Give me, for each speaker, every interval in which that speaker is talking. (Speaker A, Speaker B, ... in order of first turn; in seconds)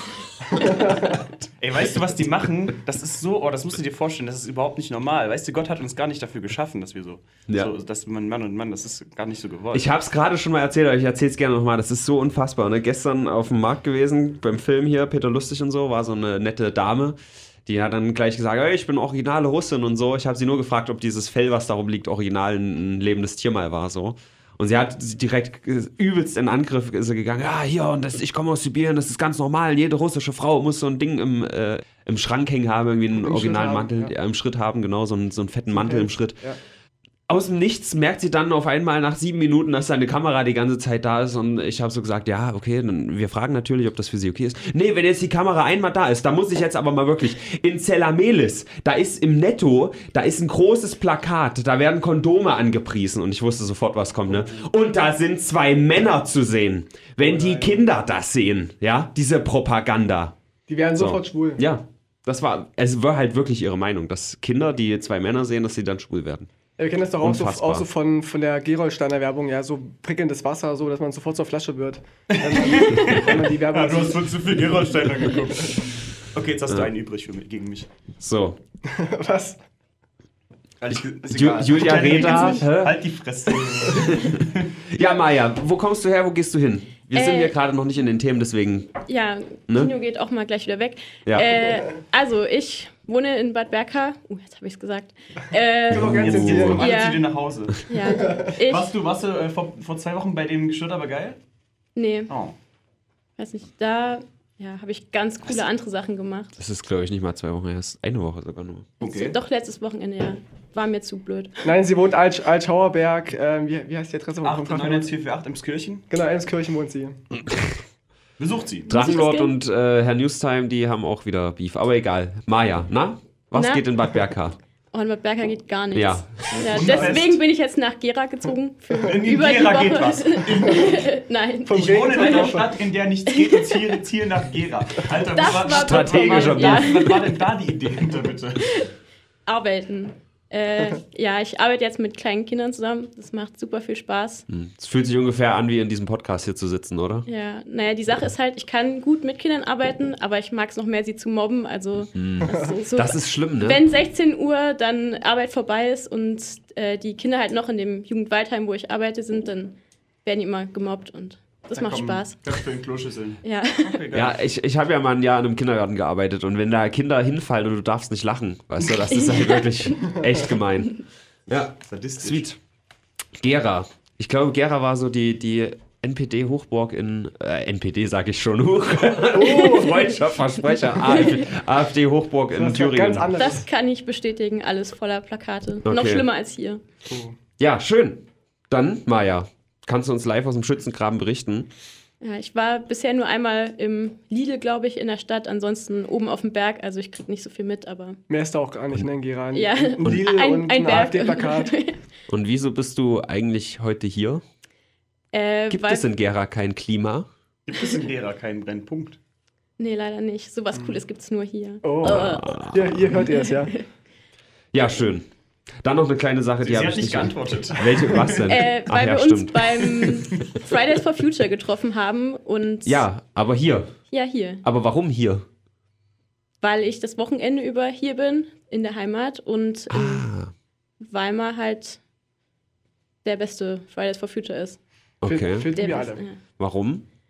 Speaker A: 0.4-1.3, 33.1-34.1, 35.7-36.6, 60.7-61.6, 66.8-74.4, 78.8-79.6, 82.1-82.6, 95.9-96.8, 98.2-98.5, 111.6-115.1, 116.1-117.2, 126.8-127.2, 131.7-132.7, 179.3-180.2, 182.5-183.7, 187.1-187.3, 198.3-201.7, 210.7-211.0, 211.8-213.8, 235.2-236.2
Speaker B: 1.0-9.9, 57.2-57.8, 72.3-77.9, 80.8-84.7, 96.2-97.9, 98.6-101.4, 102.3-102.5, 109.0-109.4, 114.4-116.1, 118.4-118.9, 126.6-127.4, 128.9-131.1, 131.7-138.9, 161.8-164.4, 171.8-172.4, 200.0-200.3, 207.7-209.2, 216.6-218.6
Speaker C: 9.7-36.4, 37.3-60.3, 61.0-66.5, 67.2-67.9, 78.2-78.6, 80.9-83.0, 83.9-88.9, 91.2-91.6, 95.9-96.8, 106.6-108.9, 118.9-124.6, 125.9-126.7, 135.6-136.9, 144.5-147.2, 152.1-153.8, 164.1-172.6, 173.4-183.5, 185.8-186.2, 187.6-191.7, 202.3-204.4, 205.7-207.3, 212.0-213.1, 214.7-215.3, 215.8-219.9, 222.8-223.9, 224.6-225.4, 229.9-230.5, 235.2-235.7, 236.6-237.1
Speaker D: 87.1-87.5, 89.1-98.9, 102.0-102.3, 103.4-106.5, 109.0-111.5, 118.9-119.5, 123.5-123.8, 124.9-132.6, 133.3-134.0, 135.1-137.4, 138.6-138.9, 139.4-144.4, 147.3-162.6, 163.4-164.0, 169.1-170.4, 179.6-180.1, 180.9-181.4, 183.4-186.8, 192.2-198.2, 199.5-202.0, 205.3-206.0, 209.8-212.6, 213.2-213.8, 218.5-223.0, 224.1-224.6, 226.6-230.3, 231.0-232.0, 233.2-234.8, 235.7-236.4